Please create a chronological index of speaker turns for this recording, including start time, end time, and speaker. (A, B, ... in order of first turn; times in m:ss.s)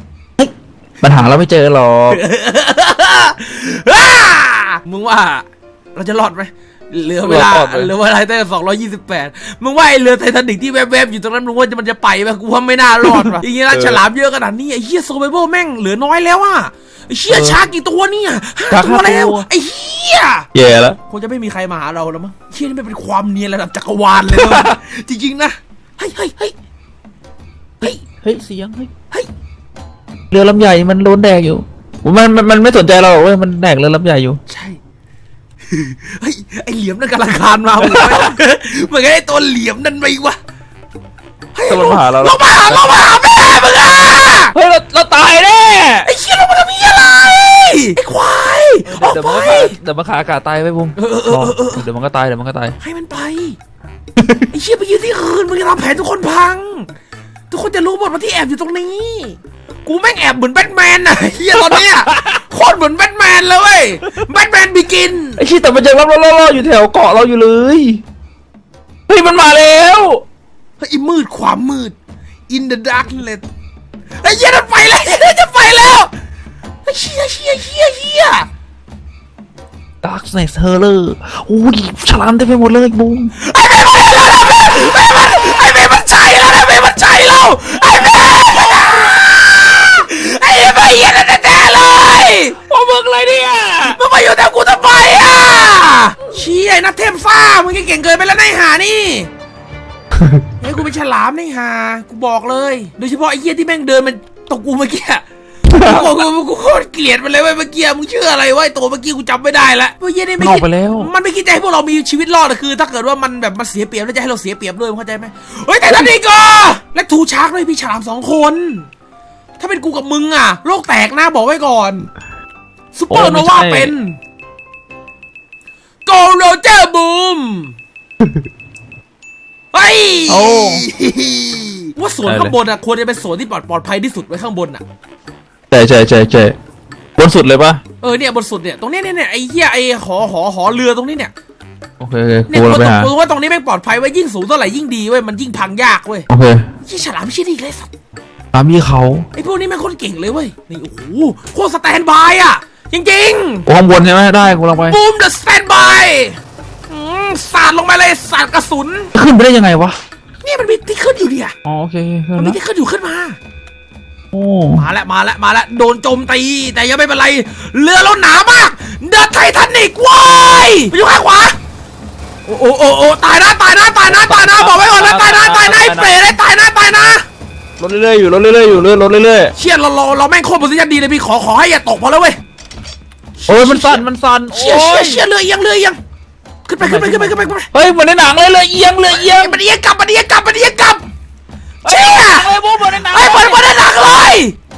0:00.4-0:02.2 A
0:02.1-0:26.5 B
0:07.2-0:07.9 A
0:13.0-0:14.0 A
0:17.3-0:17.6 A
0:18.7-0:19.5 A
0:20.5-0:21.0 A
0:24.3-0:24.7 A
0:27.8-0:28.9 A
0:30.3-0:34.4 A
0:34.5-0:34.8 B
0:35.7-0:40.4 B
0:37.8-0:38.4 A
0:41.6-0:44.5 B
0:41.7-0:42.4 A
0:44.5-0:46.1 A
0:46.0-0:49.8 B
0:48.8-0:52.8 A
0:51.0-0:51.8 B
0:52.8-0:53.6 B
0:54.2-0:54.5 A
0:54.5-0:56.9 B
0:57.5-1:05.4 B
1:05.4-1:08.0 A
1:09.1-1:10.2 A
1:10.8-1:12.0 B
1:12.5-1:13.4 B
1:14.2-1:16.1 B
1:16.8-1:18.5 B
1:20.0-1:23.3 A
1:23.4-1:32.6 B
1:32.7-1:34.0 A
1:33.8-1:39.3 B
1:40.6-1:58.9 B
1:45.7-1:46.2 A
1:50.4-1:51.1 A
1:59.6-2:02.1 B
2:03.0-2:04.2 B
2:03.1-2:03.9 A
2:06.0-2:07.8 B
2:09.7-2:14.8 B
2:10.3-2:10.9 A
2:12.3-2:12.6 A
2:15.7-2:16.6 A
2:17.2-2:17.8 A
2:18.0-2:21.3 B
2:22.0-2:23.1 A
2:22.5-2:26.3 B
2:26.3-2:26.6 A
2:26.8-2:27.9 B
2:28.5-2:29.3 A
2:29.3-2:33.7 B
2:33.7-2:35.0 A
2:34.9-2:36.4 B
2:36.9-2:39.1 B
2:39.2-2:40.0 A
2:40.4-2:41.5 B
2:41.6-2:42.6 A
2:42.4-2:43.4 B
2:44.3-2:44.8 A
2:44.8-2:51.6 B
2:52.5-2:57.2 B
2:54.0-2:56.2 A
2:57.8-2:59.5 A
2:59.6-3:02.4 B
3:03.5-3:06.0 B
3:03.5-3:05.2 A
3:06.7-3:07.7 B
3:06.8-3:09.6 A
3:09.1-3:11.0 B
3:11.8-3:13.6 A
3:11.9-3:14.6 B